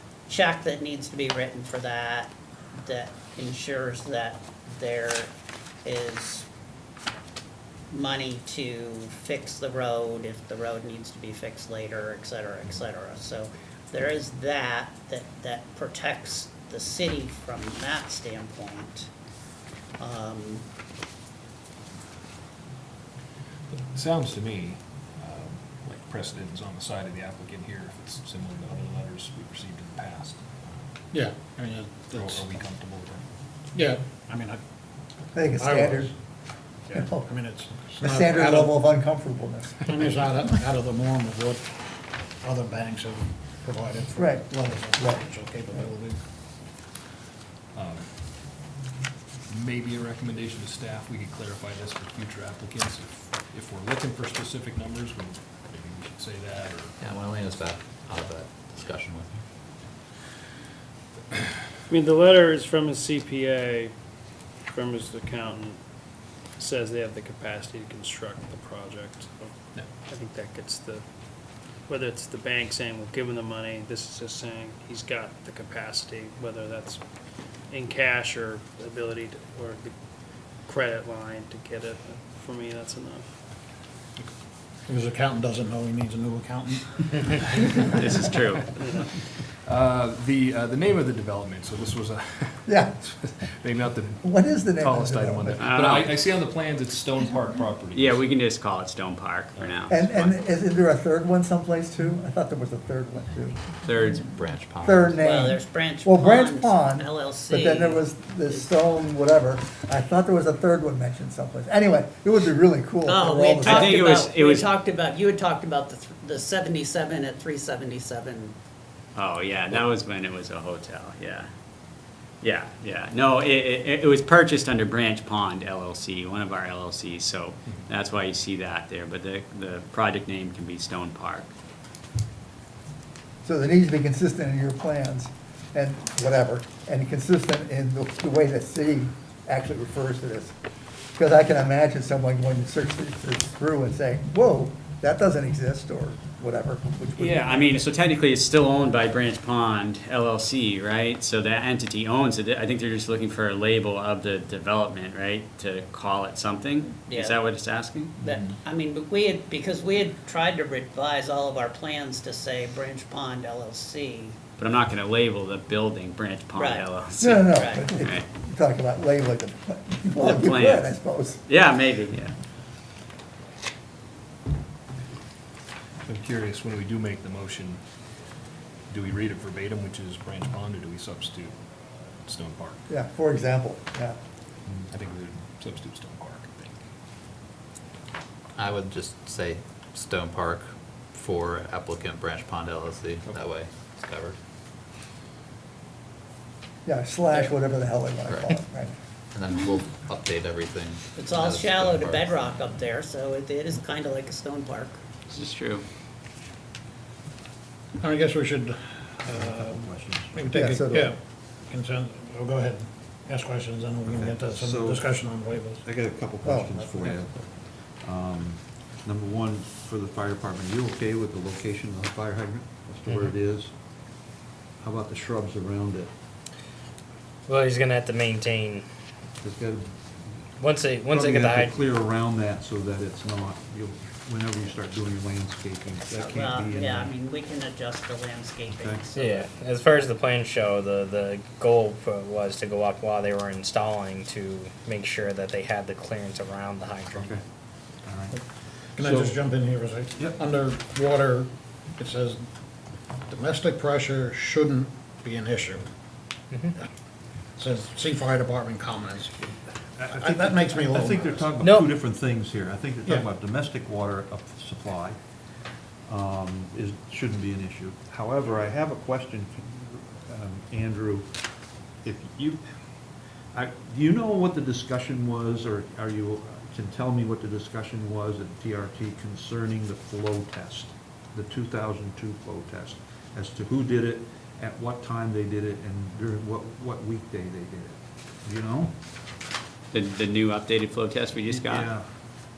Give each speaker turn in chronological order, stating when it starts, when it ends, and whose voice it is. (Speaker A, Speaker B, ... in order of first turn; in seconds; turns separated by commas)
Speaker A: 0.3-5.3, Speaker A: 5.8-6.5, Speaker A: 7.9-19.1, Speaker A: 20.0-20.7, Speaker B: 23.7-31.0, Speaker C: 31.1-32.5, Speaker B: 32.1-33.3, Speaker C: 33.7-34.6, Speaker D: 35.3-36.1, Speaker C: 35.5-36.1, Speaker C: 36.9-38.8, Speaker D: 36.9-37.3, Speaker D: 38.0-39.9, Speaker C: 39.8-41.9, Speaker C: 42.4-46.2, Speaker D: 44.2-45.2, Speaker B: 47.7-48.5, Speaker B: 49.5-57.0, Speaker E: 57.0-59.4, Speaker F: 61.9-64.0, Speaker F: 64.5-80.0, Speaker F: 80.6-83.4, Speaker C: 84.9-87.9, Speaker G: 88.0-88.8, Speaker B: 89.6-98.3, Speaker D: 92.7-93.0, Speaker D: 94.2-95.8, Speaker G: 95.6-96.1, Speaker G: 97.9-100.3, Speaker B: 99.5-99.8, Speaker D: 99.9-103.6, Speaker G: 103.8-104.3, Speaker E: 104.2-105.2, Speaker D: 104.8-114.2, Speaker A: 105.2-108.7, Speaker A: 113.0-118.6, Speaker G: 113.6-114.7, Speaker G: 119.2-121.5, Speaker G: 122.4-131.5, Speaker D: 133.4-140.6, Speaker D: 141.2-147.8, Speaker G: 147.2-158.2, Speaker A: 157.1-157.4, Speaker A: 158.2-164.4, Speaker G: 164.6-168.2, Speaker A: 166.6-166.9, Speaker D: 167.2-171.5, Speaker A: 167.5-167.9, Speaker G: 170.2-170.9, Speaker G: 171.5-172.3, Speaker B: 176.0-178.1, Speaker B: 178.9-181.6, Speaker B: 182.1-182.8, Speaker D: 182.9-184.2, Speaker B: 184.7-186.8, Speaker E: 188.6-194.4, Speaker D: 196.9-198.9, Speaker E: 199.3-202.5, Speaker A: 201.2-205.0, Speaker G: 205.3-205.8, Speaker C: 208.0-215.8, Speaker H: 209.3-210.5, Speaker D: 210.5-211.1, Speaker H: 214.1-215.3, Speaker H: 215.8-223.7, Speaker D: 216.4-217.2, Speaker H: 224.8-226.1, Speaker I: 227.5-228.8, Speaker H: 229.4-229.9, Speaker I: 230.6-231.8, Speaker H: 231.1-237.1, Speaker A: 236.1-239.5, Speaker H: 238.7-239.0, Speaker I: 239.2-247.3, Speaker H: 247.2-247.4, Speaker H: 248.0-248.4, Speaker H: 249.0-249.4, Speaker C: 249.0-252.4, Speaker C: 253.3-255.8, Speaker C: 257.6-259.5, Speaker H: 260.0-265.2, Speaker C: 260.0-261.6, Speaker I: 261.6-261.9, Speaker H: 266.1-271.3, Speaker H: 272.0-272.6, Speaker H: 273.5-288.9, Speaker G: 289.9-291.9, Speaker H: 291.5-292.1